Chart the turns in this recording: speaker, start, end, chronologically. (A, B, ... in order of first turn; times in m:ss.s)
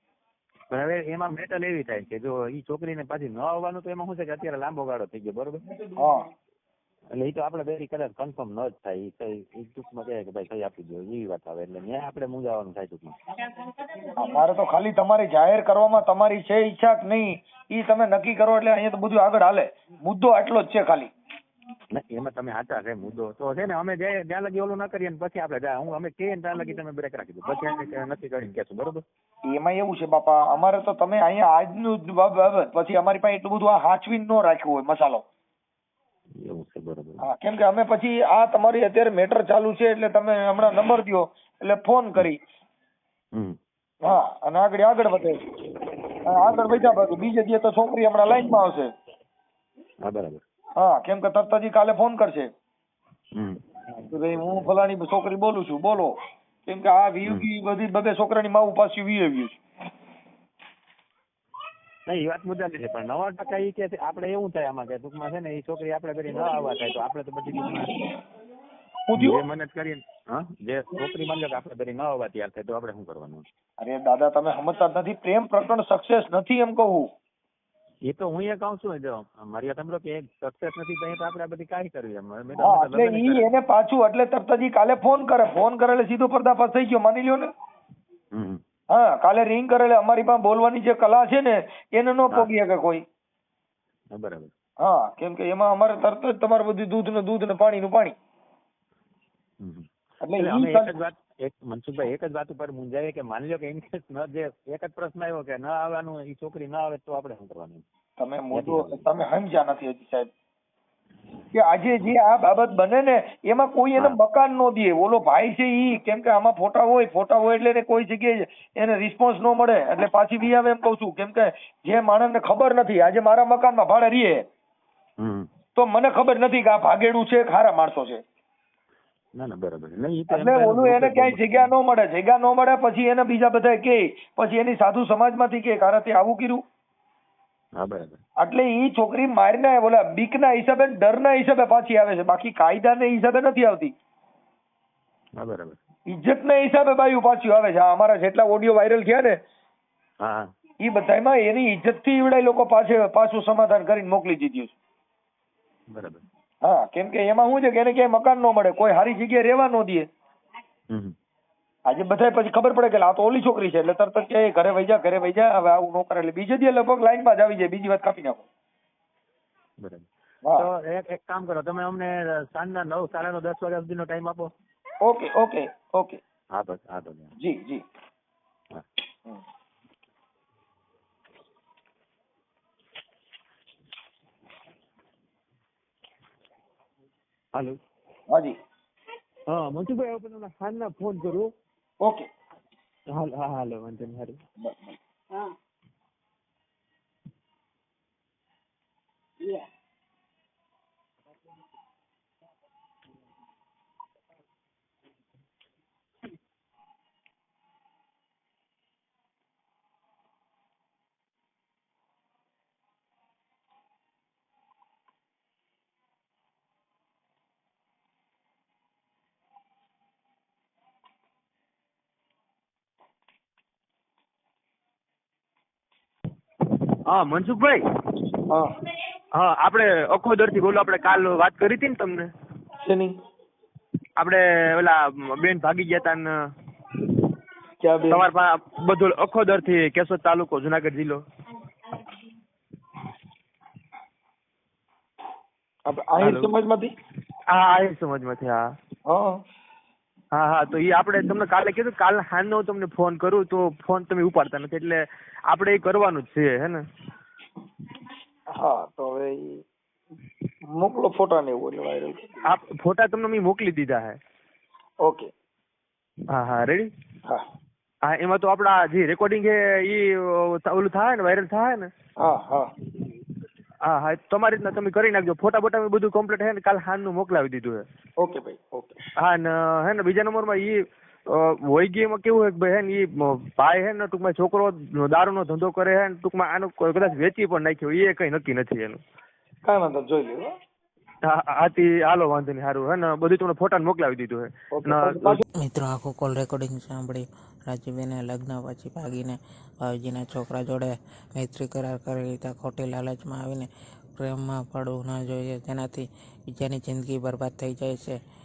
0:00.7-0:05.7 A
0:06.0-0:06.3 B
0:07.2-0:13.2 A
0:14.2-0:21.1 B
0:21.9-0:29.0 A
0:29.5-0:35.2 B
0:36.4-0:37.3 A
0:37.2-0:42.4 B
0:44.0-0:45.4 B
0:46.2-0:48.9 B
0:50.0-0:50.4 A
0:50.8-0:52.5 B
0:53.4-0:54.7 A
0:54.1-0:59.6 B
1:02.1-1:07.9 A
1:09.1-1:09.4 B
1:09.2-1:13.4 A
1:13.8-1:17.1 B
1:18.0-1:23.5 A
1:22.6-1:27.5 B
1:28.3-1:28.6 A
1:28.9-1:33.0 B
1:34.1-1:34.5 A
1:34.8-1:38.2 B
1:39.6-1:47.8 A
1:40.2-1:41.0 B
1:48.2-1:50.3 B
1:48.5-1:49.1 A
1:51.5-2:04.4 B
2:05.2-2:05.5 A
2:05.8-2:08.2 B
2:09.4-2:11.7 A
2:10.3-2:16.6 B
2:17.8-2:18.2 A
2:18.4-2:23.9 B
2:25.4-2:25.8 A
2:26.1-2:29.4 B
2:30.2-2:30.5 A
2:30.8-2:34.8 B
2:35.9-2:36.2 A
2:36.6-2:40.1 B
2:40.9-2:41.2 A
2:41.9-2:48.4 B
2:49.8-2:54.5 A
2:55.0-2:56.2 B
2:56.5-2:57.3 A
2:57.4-2:57.8 B
3:08.3-3:08.6 B
3:09.5-3:11.5 C
3:12.0-3:12.3 B
3:13.1-3:14.4 C
3:14.6-3:15.0 B
3:47.0-3:47.8 C
3:48.5-3:48.7 B
3:49.3-3:52.3 C
3:52.8-3:53.2 B
3:54.2-3:56.3 C
3:57.8-3:58.3 B
3:58.1-4:01.2 C
4:05.9-4:06.9 B
4:06.2-4:06.5 C
4:07.5-4:08.7 C
4:09.1-4:09.4 B
4:10.3-4:16.8 C
4:18.6-4:19.6 B
4:20.7-4:22.5 B
4:22.5-4:24.2 C
4:25.0-4:25.3 B
4:26.3-4:26.9 C
4:28.0-4:31.9 C
4:32.2-4:32.7 B
4:33.8-4:37.8 C
4:38.2-4:39.0 B
4:39.2-4:49.0 C
4:49.6-4:50.5 B
4:51.2-4:55.4 C
4:54.7-4:55.4 B
4:55.6-5:08.2 D